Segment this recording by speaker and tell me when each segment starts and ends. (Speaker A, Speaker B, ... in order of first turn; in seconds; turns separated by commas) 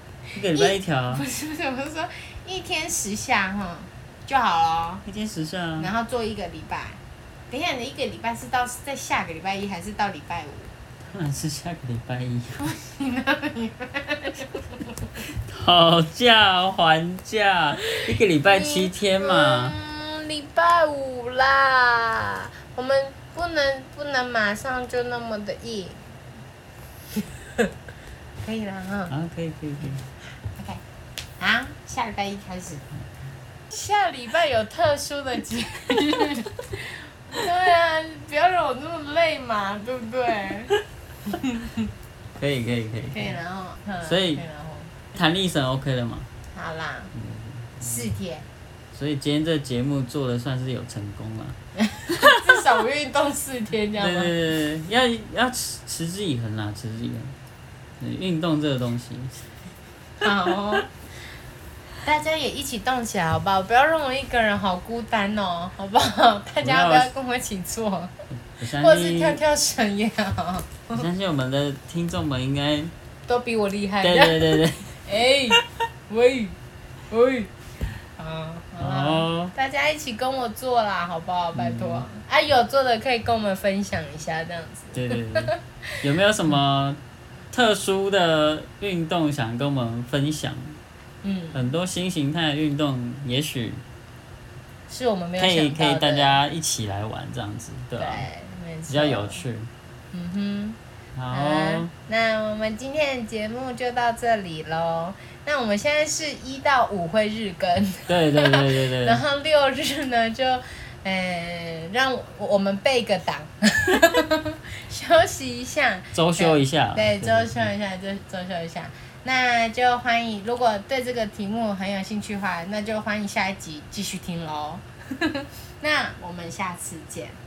Speaker A: 0.3-5.0, Speaker B: 0.3-1.2, Speaker B: 5.0-5.9, Speaker A: 5.8-10.7, Speaker B: 11.1-12.6, Speaker A: 12.6-14.8, Speaker B: 15.4-19.7, Speaker A: 18.4-26.0, Speaker A: 27.2-27.7, Speaker A: 28.4-29.1, Speaker B: 29.1-30.0, Speaker A: 30.5-30.8, Speaker A: 31.4-32.9, Speaker A: 33.7-40.7, Speaker A: 41.3-41.8, Speaker B: 42.4-43.4, Speaker A: 43.1-44.9, Speaker B: 44.0-44.4, Speaker B: 45.1-46.3, Speaker A: 46.5-47.1, Speaker B: 47.1-48.0, Speaker A: 47.8-48.5, Speaker B: 48.9-51.6, Speaker A: 51.8-54.3, Speaker B: 54.0-57.3, Speaker B: 58.0-59.4, Speaker A: 60.2-60.9, Speaker A: 62.0-68.1, Speaker B: 66.6-67.1, Speaker B: 68.6-69.4, Speaker A: 68.7-71.0, Speaker B: 70.9-72.9, Speaker A: 73.3-76.5, Speaker B: 74.0-75.0, Speaker A: 77.1-77.5, Speaker A: 78.2-85.9, Speaker B: 78.8-79.5, Speaker B: 81.5-82.0, Speaker B: 84.9-87.0, Speaker B: 87.5-90.8, Speaker A: 91.2-91.6, Speaker B: 91.5-93.8, Speaker A: 94.9-96.4, Speaker B: 95.4-98.3, Speaker A: 98.0-99.4, Speaker B: 98.9-99.7, Speaker A: 100.1-100.8, Speaker B: 101.1-101.9, Speaker A: 101.3-127.4, Speaker B: 108.1-109.2, Speaker B: 116.1-117.6